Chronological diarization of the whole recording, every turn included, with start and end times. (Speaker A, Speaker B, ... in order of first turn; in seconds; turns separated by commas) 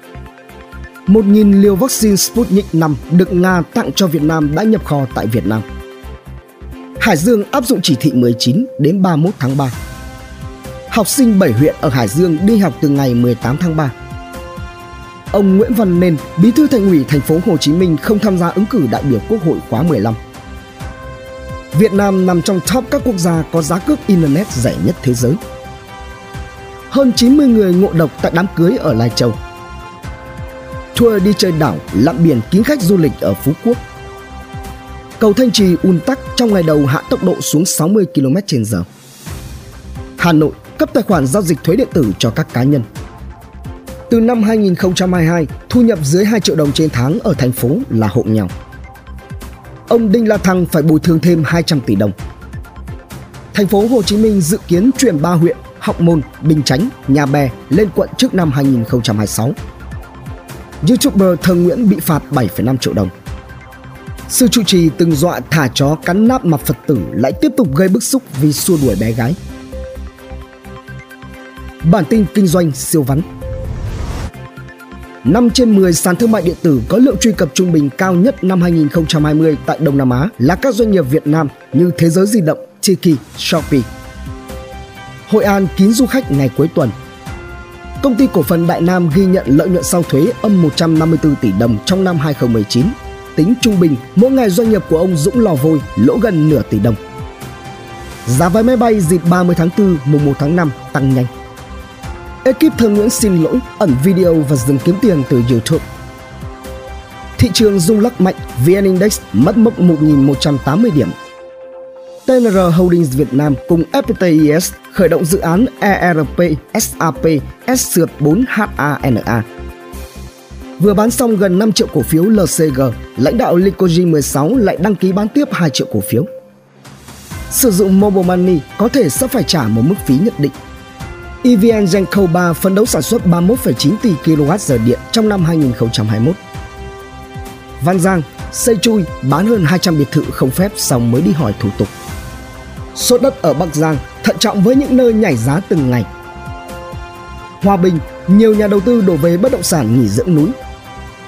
Speaker A: 1.1-5.6, Speaker A: 7.0-9.7, Speaker A: 10.9-13.9, Speaker A: 15.3-20.2, Speaker A: 21.7-25.4, Speaker A: 26.9-29.4, Speaker A: 30.9-33.8, Speaker A: 35.2-38.9, Speaker A: 40.2-42.9, Speaker A: 44.1-48.5, Speaker A: 49.9-52.1, Speaker A: 53.5-59.5, Speaker A: 60.8-63.1, Speaker A: 64.3-69.4, Speaker A: 71.8-73.2, Speaker A: 75.2-83.9, Speaker A: 85.3-86.9, Speaker A: 88.0-97.0, Speaker A: 98.2-101.3, Speaker A: 102.4-105.8, Speaker A: 107.4-111.1, Speaker A: 112.2-119.5, Speaker A: 120.8-126.3, Speaker A: 127.5-130.5, Speaker A: 131.4-136.4, Speaker A: 137.8-141.9, Speaker A: 142.9-146.1, Speaker A: 147.6-150.5